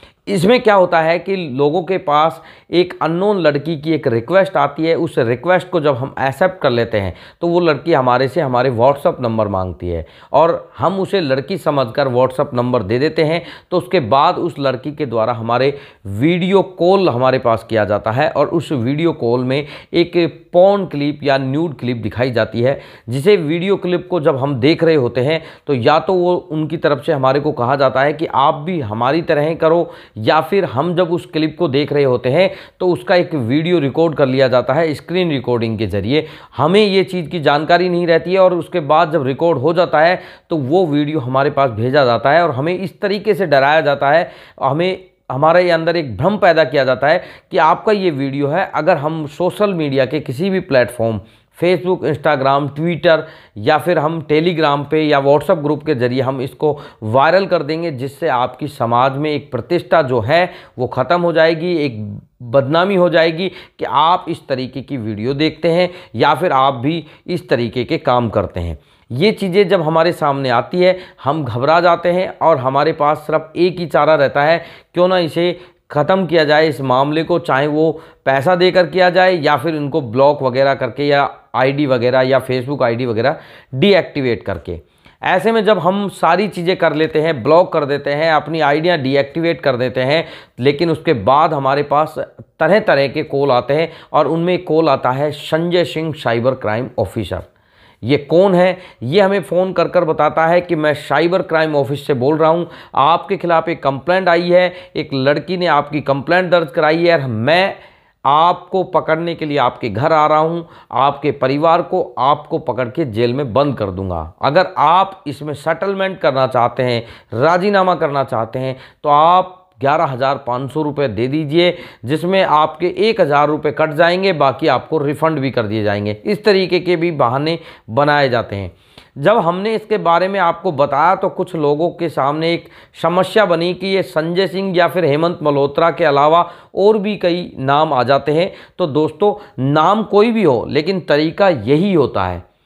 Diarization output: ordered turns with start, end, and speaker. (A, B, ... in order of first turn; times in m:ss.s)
0:00.3-1:37.5 A
1:38.0-1:47.8 A
1:48.3-2:22.4 A